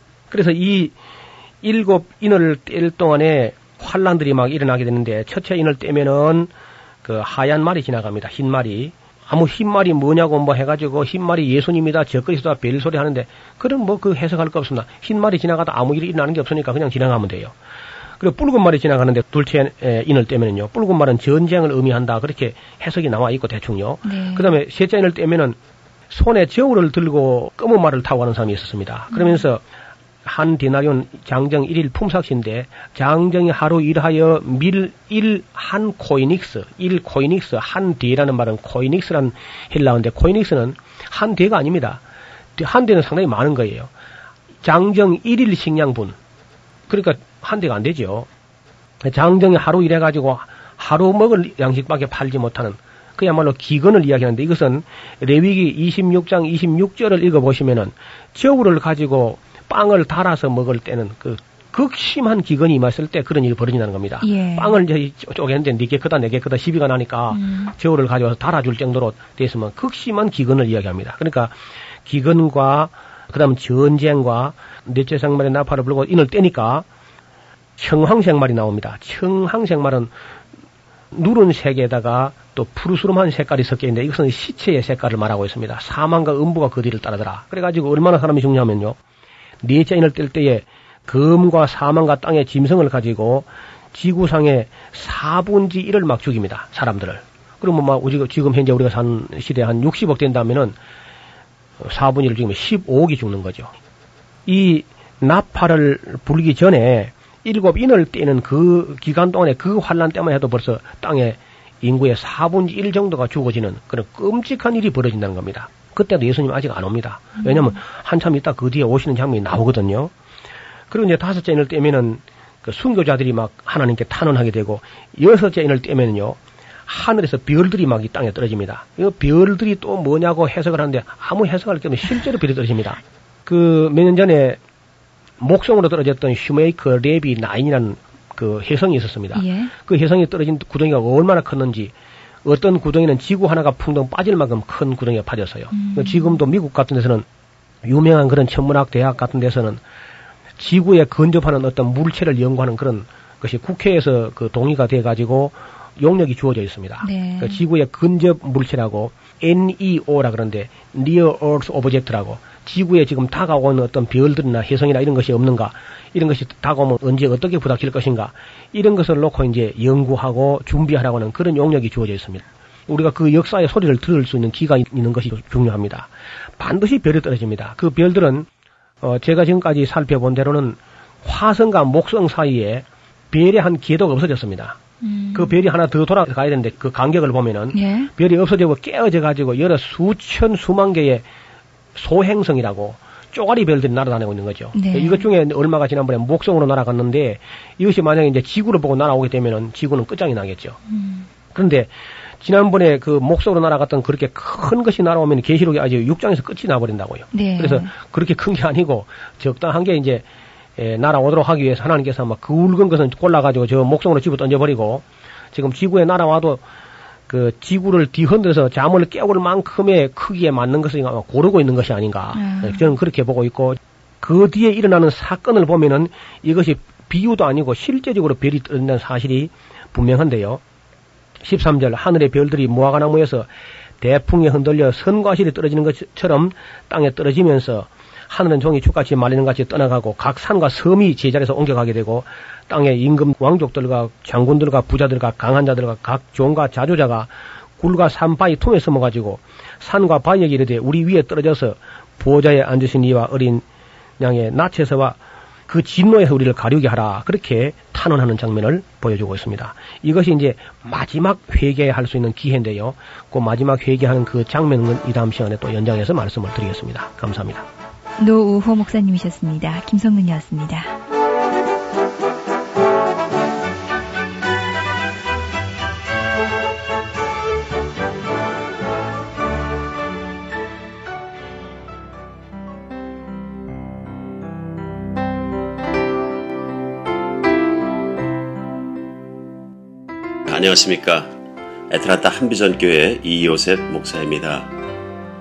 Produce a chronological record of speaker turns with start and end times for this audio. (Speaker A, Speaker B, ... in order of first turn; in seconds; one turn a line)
Speaker A: 0.3-0.9
Speaker A: 1.6-6.5
Speaker A: 7.0-17.5
Speaker A: 18.2-25.6
Speaker B: 24.0-24.6
Speaker A: 26.1-29.6
Speaker B: 29.1-29.4
Speaker A: 30.2-42.0
Speaker A: 42.5-43.9
Speaker A: 44.6-46.1
Speaker A: 46.9-48.3
Speaker A: 49.0-76.8
Speaker B: 64.2-64.8
Speaker B: 67.3-67.7
Speaker A: 77.8-80.1
Speaker A: 81.1-89.0
Speaker A: 89.6-100.8
Speaker A: 101.8-103.7
Speaker A: 104.5-120.1
Speaker A: 120.9-134.6
Speaker A: 135.4-141.9
Speaker B: 139.3-139.7
Speaker A: 142.4-147.2
Speaker B: 145.7-146.5
Speaker A: 147.8-149.8
Speaker A: 150.6-178.5
Speaker B: 157.0-157.7
Speaker A: 179.0-184.8
Speaker B: 185.0-185.6
Speaker A: 185.3-191.2
Speaker B: 187.7-188.1
Speaker A: 191.9-200.8
Speaker B: 194.7-195.3
Speaker B: 200.9-201.3
Speaker A: 201.5-216.6
Speaker B: 207.3-208.0
Speaker A: 217.3-230.6
Speaker B: 222.3-223.0
Speaker A: 231.4-233.5
Speaker A: 234.0-253.6
Speaker A: 254.2-267.6
Speaker B: 268.2-270.9
Speaker C: 290.5-291.3
Speaker C: 291.9-294.7